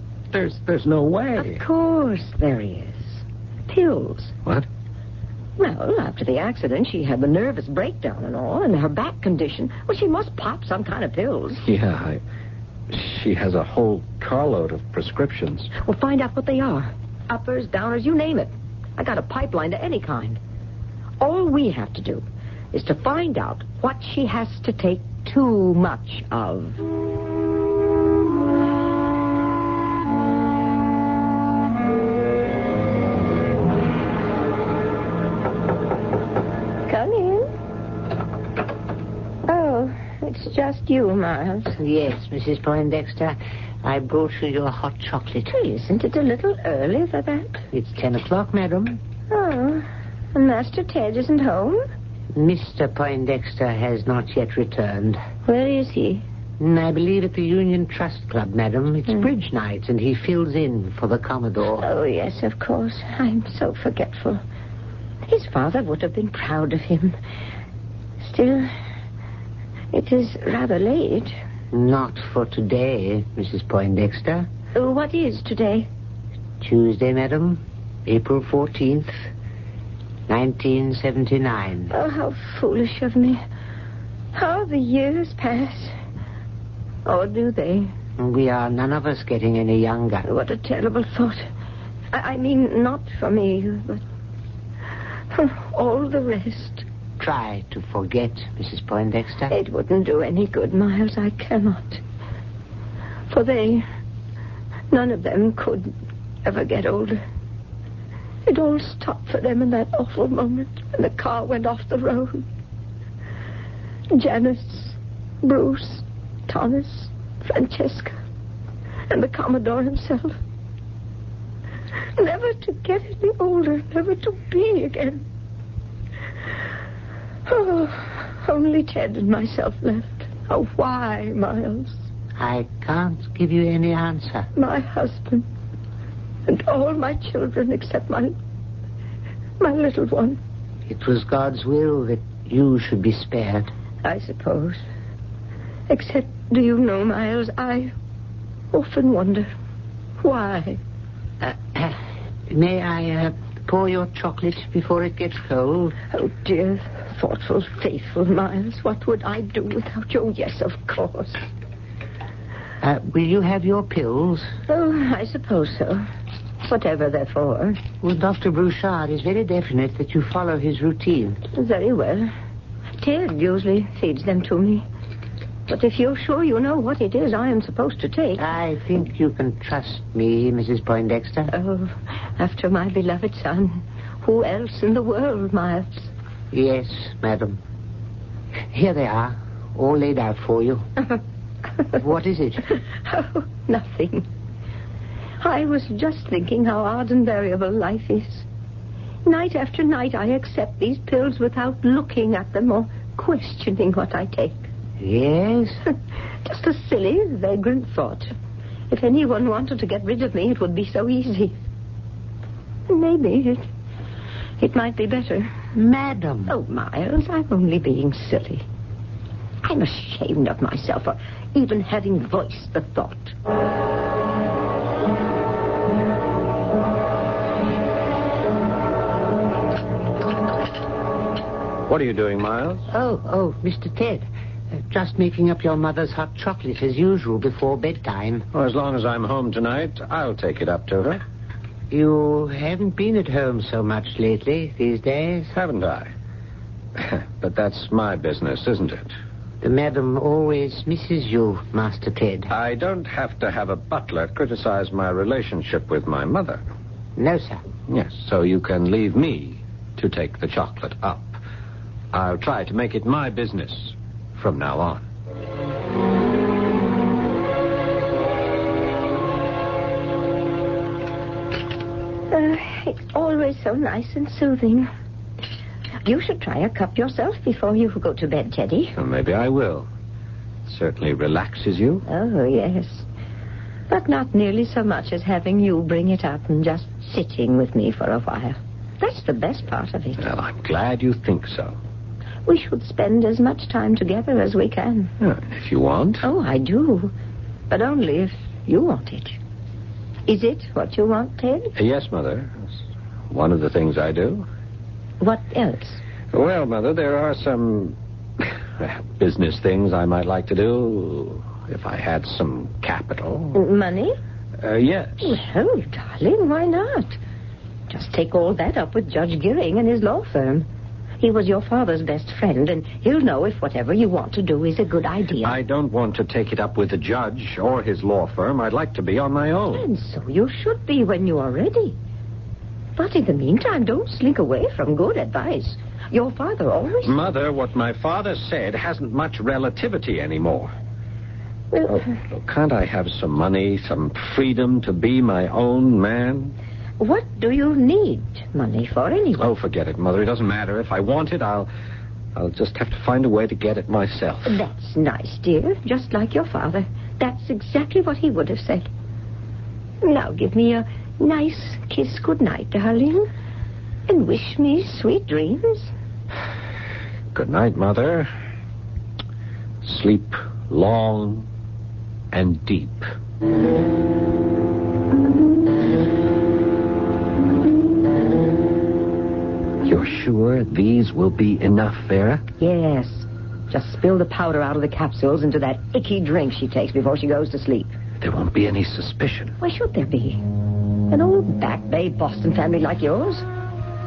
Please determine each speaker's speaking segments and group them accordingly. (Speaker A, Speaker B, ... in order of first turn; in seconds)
Speaker A: 0.3-1.6, 11.6-12.2, 12.9-15.7, 231.9-232.8, 238.5-241.2, 245.5-246.1, 247.0-249.1, 252.5-256.6, 257.9-261.4, 262.1-265.0, 279.0-279.9, 280.6-282.0, 290.2-291.8, 295.2-296.2, 301.8-302.7, 303.3-304.4, 306.3-313.5, 314.6-315.3, 325.4-329.8, 337.0-340.7, 341.9-346.5, 349.4-351.7, 352.3-354.6, 367.3-368.3, 369.8-371.5, 372.3-373.0, 379.8-382.4, 388.2-389.6
Speaker B: 1.4-4.3, 5.6-11.6, 15.8-20.4, 21.2-26.8, 36.9-37.5, 39.5-41.8, 45.5-47.6, 49.3-51.8, 55.5-56.2, 61.8-64.4, 65.2-67.1, 68.2-68.7, 69.9-71.3, 74.7-75.9, 81.9-83.4, 84.3-85.9, 87.0-87.9, 90.2-91.5, 92.1-94.0, 95.3-96.8, 99.5-102.0, 103.3-103.8, 104.9-105.9, 106.4-107.2, 108.5-112.4, 114.1-118.2, 119.1-120.3, 122.2-125.2, 127.5-131.9, 134.5-135.4, 136.5-138.3, 139.6-140.4, 144.0-144.8, 145.9-147.9, 148.7-149.5, 150.2-150.8, 156.1-161.4, 164.7-166.1, 166.6-167.8, 171.5-172.3, 173.0-174.8, 175.7-178.4, 181.5-186.1, 193.0-194.2, 195.4-198.4, 199.2-204.7, 206.4-208.3, 208.9-211.6, 212.9-213.6, 214.6-215.5, 216.5-218.6, 219.6-223.3, 272.3-274.9, 276.0-278.9, 282.1-283.1, 283.9-290.2, 292.4-295.1, 296.2-297.1, 297.7-299.4, 300.3-301.7, 305.2-306.0, 313.5-314.1, 315.2-317.2, 317.9-320.7, 321.2-325.6, 329.7-331.9, 333.0-337.1, 341.7-342.0, 347.0-349.4, 354.4-358.9, 360.0-363.2, 364.1-365.9, 382.6-387.9, 389.6-390.4, 391.1-393.4
Speaker C: 41.8-45.5, 47.7-49.0, 52.3-55.2, 56.6-61.9, 71.7-74.5, 76.6-79.2, 80.3-81.9, 88.2-90.3, 97.2-99.5, 132.4-134.5, 140.9-143.7, 151.4-155.9, 162.8-164.5, 168.0-171.4, 178.3-181.5, 186.5-187.6, 188.7-190.8, 191.9-192.7, 205.0-205.8, 215.7-216.5, 232.9-234.2, 234.9-238.4, 241.9-245.5, 249.6-252.5, 257.2-257.6